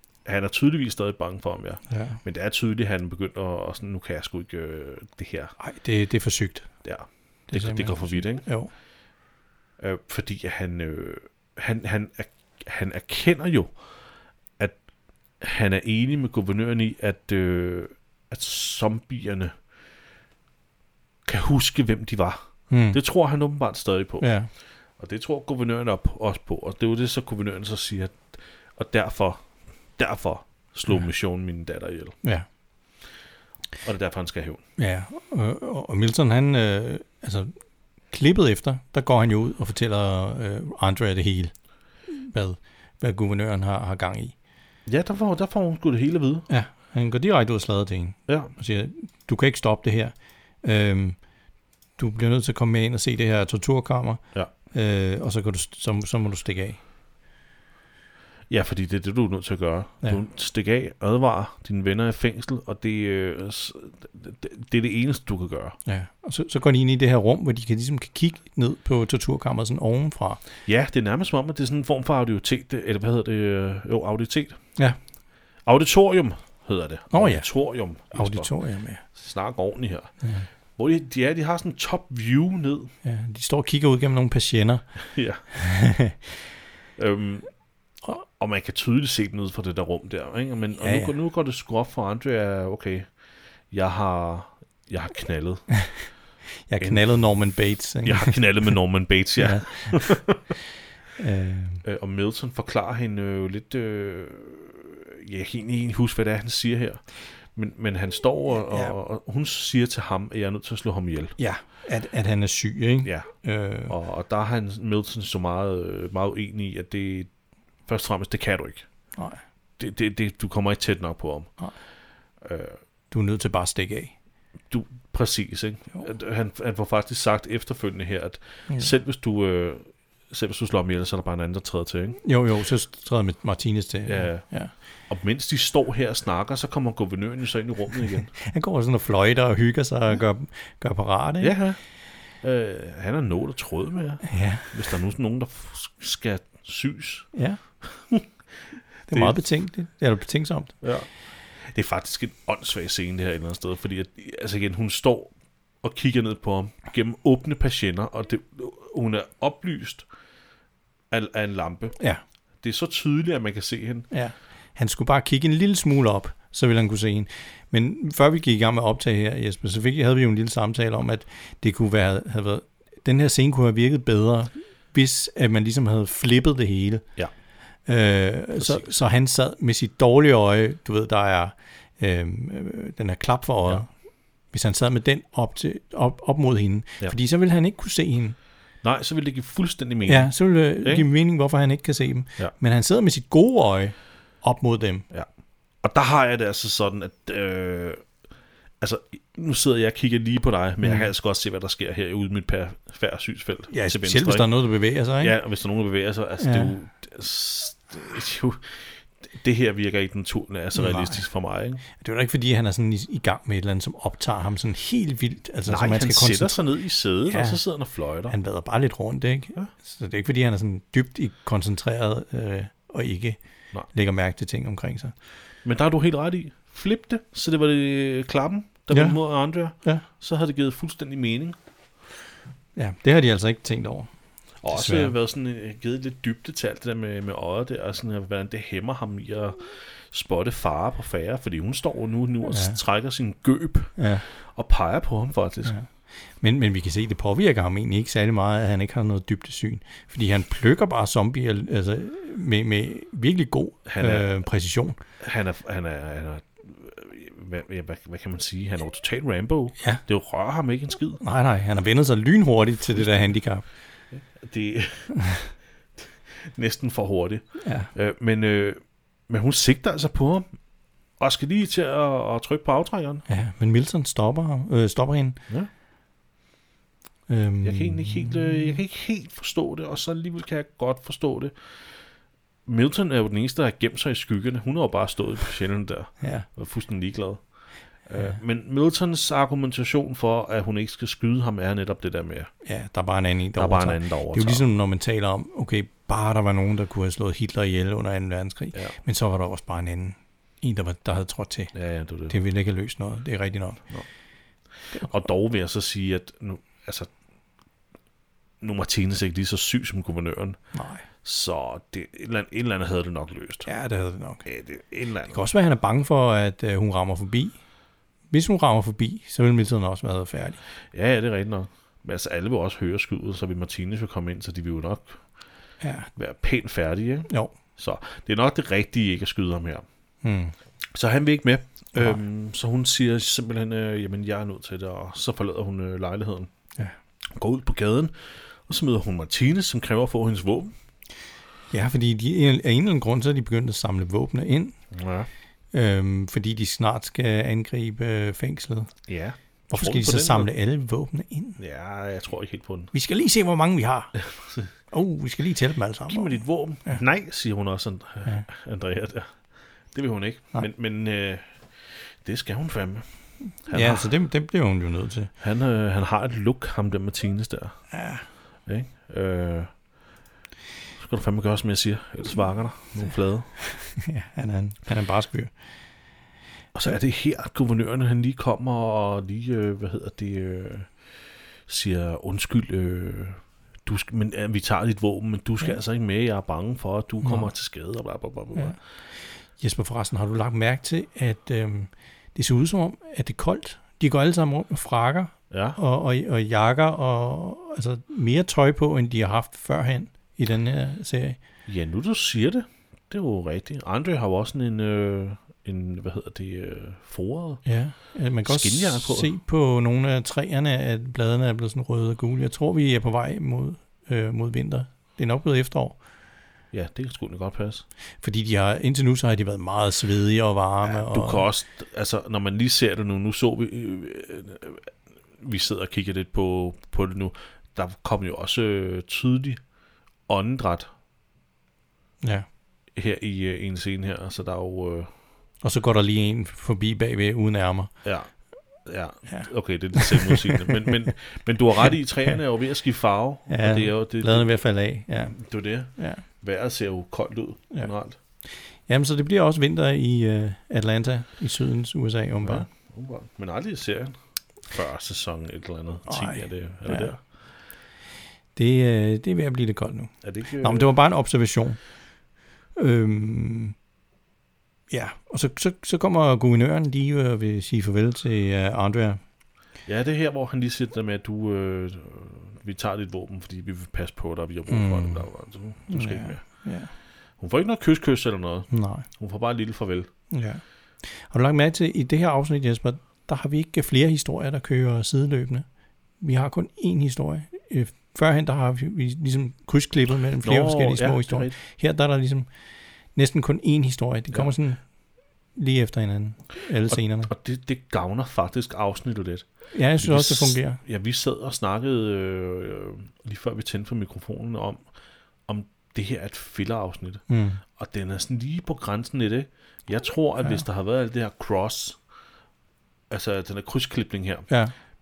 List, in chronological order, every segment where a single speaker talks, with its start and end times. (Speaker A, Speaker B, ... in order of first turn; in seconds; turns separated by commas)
Speaker A: 0.2-5.5, Speaker B: 1.9-2.2, Speaker B: 5.6-6.7, Speaker A: 6.8-8.5, Speaker B: 7.5-8.7, Speaker A: 9.8-13.7, Speaker A: 15.4-19.6, Speaker A: 21.2-24.3, Speaker B: 22.7-23.0, Speaker B: 24.2-24.5, Speaker A: 25.0-29.5, Speaker A: 30.0-32.2, Speaker A: 33.8-34.6, Speaker B: 34.8-37.5, Speaker B: 38.1-41.6, Speaker B: 42.1-44.4, Speaker A: 44.9-46.5, Speaker B: 46.5-51.2, Speaker A: 48.3-48.5, Speaker B: 52.0-56.8, Speaker A: 58.5-65.8, Speaker B: 65.9-70.4, Speaker A: 70.7-74.6, Speaker A: 75.6-78.5, Speaker B: 77.1-77.5, Speaker B: 78.1-79.0, Speaker A: 79.1-80.1, Speaker B: 80.2-80.5, Speaker A: 80.8-82.9, Speaker B: 83.0-84.9, Speaker A: 85.0-85.5, Speaker B: 85.5-86.3, Speaker A: 87.0-87.5, Speaker A: 88.1-93.1, Speaker B: 90.8-91.1, Speaker A: 93.7-95.8, Speaker B: 95.7-96.1, Speaker B: 96.7-98.8, Speaker A: 96.8-97.2, Speaker A: 98.0-100.5, Speaker B: 99.4-100.2, Speaker B: 101.2-101.8, Speaker A: 101.8-111.3, Speaker B: 108.7-108.9, Speaker B: 111.4-113.9, Speaker A: 113.0-113.3, Speaker A: 113.9-117.3, Speaker A: 117.9-118.9, Speaker A: 119.8-121.5, Speaker A: 122.4-122.8, Speaker B: 123.1-124.1, Speaker A: 124.7-132.2, Speaker B: 132.2-134.7, Speaker A: 134.1-134.4, Speaker A: 135.1-138.3, Speaker B: 138.3-141.6, Speaker A: 141.4-141.8, Speaker A: 142.4-147.3, Speaker B: 144.2-144.7, Speaker B: 147.3-147.6, Speaker A: 147.8-148.3, Speaker A: 149.1-149.4, Speaker B: 149.1-150.8, Speaker A: 150.8-160.1, Speaker A: 161.1-162.0, Speaker A: 162.6-164.1, Speaker B: 164.1-177.1, Speaker B: 177.9-183.9, Speaker A: 178.6-178.9, Speaker B: 184.5-188.4, Speaker A: 188.8-191.1, Speaker B: 190.1-195.1, Speaker A: 195.8-198.1, Speaker A: 198.8-204.5, Speaker B: 200.8-201.1, Speaker B: 203.7-205.4, Speaker A: 205.2-211.8, Speaker B: 206.4-206.7, Speaker B: 210.8-211.2, Speaker B: 212.0-216.6, Speaker A: 215.7-218.3, Speaker B: 217.3-217.6, Speaker B: 218.3-225.1, Speaker A: 225.6-231.6, Speaker B: 228.9-229.2, Speaker B: 229.8-230.1, Speaker B: 232.8-234.1, Speaker A: 234.6-245.8, Speaker B: 234.7-235.1, Speaker B: 242.5-242.8, Speaker B: 244.0-244.3, Speaker B: 245.7-255.0, Speaker A: 253.9-254.3, Speaker A: 255.2-261.2, Speaker B: 261.2-263.6, Speaker A: 264.1-265.1, Speaker B: 265.1-265.5, Speaker A: 266.0-270.5, Speaker B: 267.6-267.9, Speaker A: 271.2-273.2, Speaker B: 273.3-275.4, Speaker B: 277.3-278.8, Speaker A: 277.6-281.6, Speaker A: 282.7-287.4, Speaker B: 286.2-286.5, Speaker A: 288.1-292.5, Speaker B: 292.6-301.7, Speaker A: 293.6-294.6, Speaker A: 301.7-302.4, Speaker B: 302.3-303.8, Speaker A: 304.9-307.1, Speaker A: 308.6-310.6, Speaker B: 310.7-311.1, Speaker A: 311.2-313.7, Speaker B: 313.7-314.5, Speaker A: 314.4-315.4, Speaker B: 315.3-317.6, Speaker B: 318.3-320.6, Speaker A: 320.9-325.2, Speaker B: 325.8-326.1, Speaker A: 326.2-329.9, Speaker B: 327.3-327.5, Speaker B: 330.2-330.5, Speaker A: 330.9-336.5, Speaker B: 331.9-332.2, Speaker A: 337.3-338.1, Speaker A: 338.7-340.7, Speaker B: 341.7-344.8, Speaker A: 344.9-345.3, Speaker B: 345.7-348.9, Speaker A: 349.1-350.5, Speaker B: 349.7-351.6, Speaker A: 351.6-352.9, Speaker B: 352.9-354.2, Speaker A: 354.2-354.7, Speaker B: 354.9-357.0, Speaker A: 356.1-359.4, Speaker A: 359.9-363.1, Speaker A: 363.6-364.1, Speaker B: 363.7-365.3, Speaker A: 365.4-367.8, Speaker B: 367.9-368.2, Speaker A: 368.7-369.7, Speaker A: 371.0-373.5, Speaker B: 373.6-375.5, Speaker A: 376.7-381.0, Speaker A: 381.7-388.8, Speaker B: 387.2-387.5, Speaker B: 389.6-401.4, Speaker A: 395.5-395.8, Speaker A: 401.7-407.6, Speaker B: 407.6-416.0, Speaker A: 408.4-409.3, Speaker A: 416.7-417.9, Speaker B: 418.2-421.5, Speaker A: 420.8-429.6, Speaker A: 430.3-430.9, Speaker B: 432.2-432.5, Speaker A: 432.9-435.1, Speaker B: 435.6-437.9, Speaker A: 438.0-438.3, Speaker A: 438.9-444.6, Speaker B: 439.3-441.1, Speaker B: 443.5-445.4, Speaker A: 445.3-448.2, Speaker B: 445.9-446.2, Speaker B: 448.6-452.7, Speaker A: 452.4-457.2, Speaker B: 456.1-457.1, Speaker B: 458.6-461.8, Speaker A: 460.2-460.9, Speaker B: 462.8-463.8, Speaker B: 464.9-469.2, Speaker A: 469.9-476.4, Speaker B: 474.7-475.3, Speaker B: 475.9-476.9, Speaker A: 477.4-480.1, Speaker B: 478.7-479.1, Speaker B: 480.3-485.7, Speaker B: 486.2-492.5, Speaker A: 490.4-491.6, Speaker B: 493.1-494.9, Speaker B: 495.6-497.3, Speaker A: 496.9-499.4, Speaker B: 499.7-500.8, Speaker A: 500.0-504.9, Speaker A: 505.5-512.0, Speaker B: 507.3-507.6, Speaker A: 513.1-514.5